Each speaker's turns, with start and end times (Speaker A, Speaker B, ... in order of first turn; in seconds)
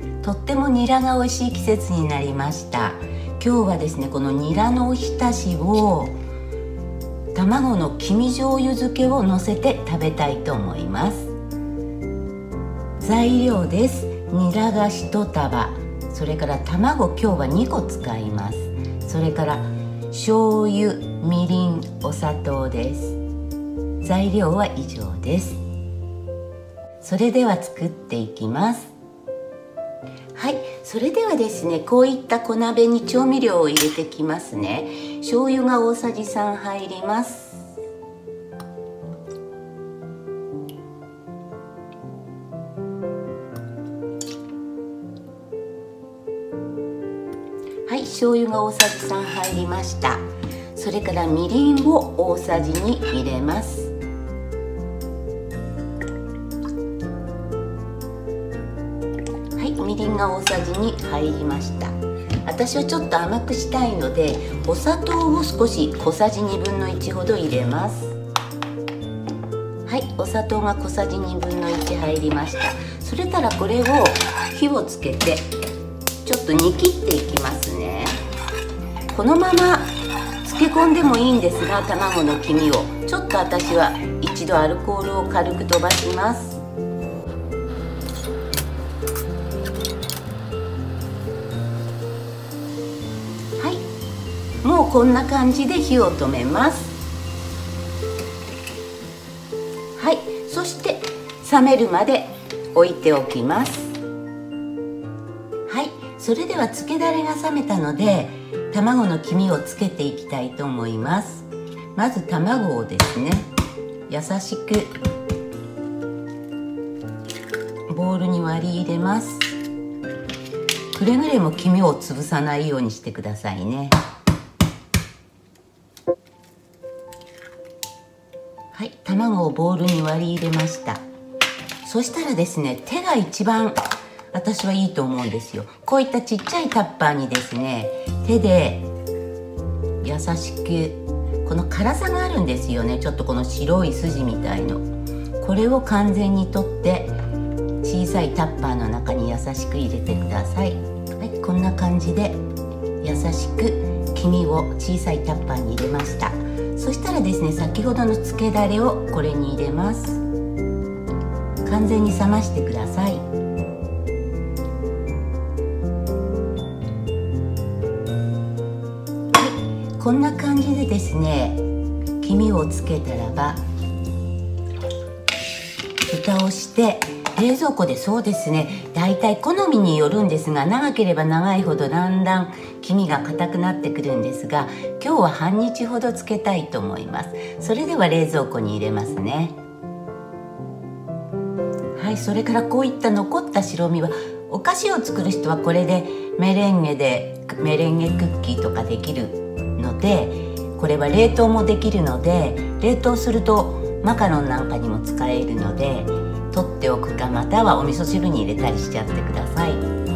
Speaker A: 0.2-6.1, 7.3-11.3, 13.0-23.2, 24.0-25.6, 27.0-28.9, 30.3-37.7, 47.9-53.9, 59.5-61.9, 62.4-68.2, 69.8-75.5, 76.2-78.2, 79.1-79.9, 80.4-86.6, 93.6-93.8, 94.6-97.0, 100.0-104.0, 105.7-113.5, 114.1-114.9, 117.9-119.5, 120.9-124.0, 128.7-131.0, 131.8-133.8, 134.3-138.9, 140.0-144.8, 145.4-147.2, 147.8-152.4, 153.0-160.2, 161.6-163.2, 169.3-171.6, 172.2-173.6, 176.1-189.6, 191.9-209.8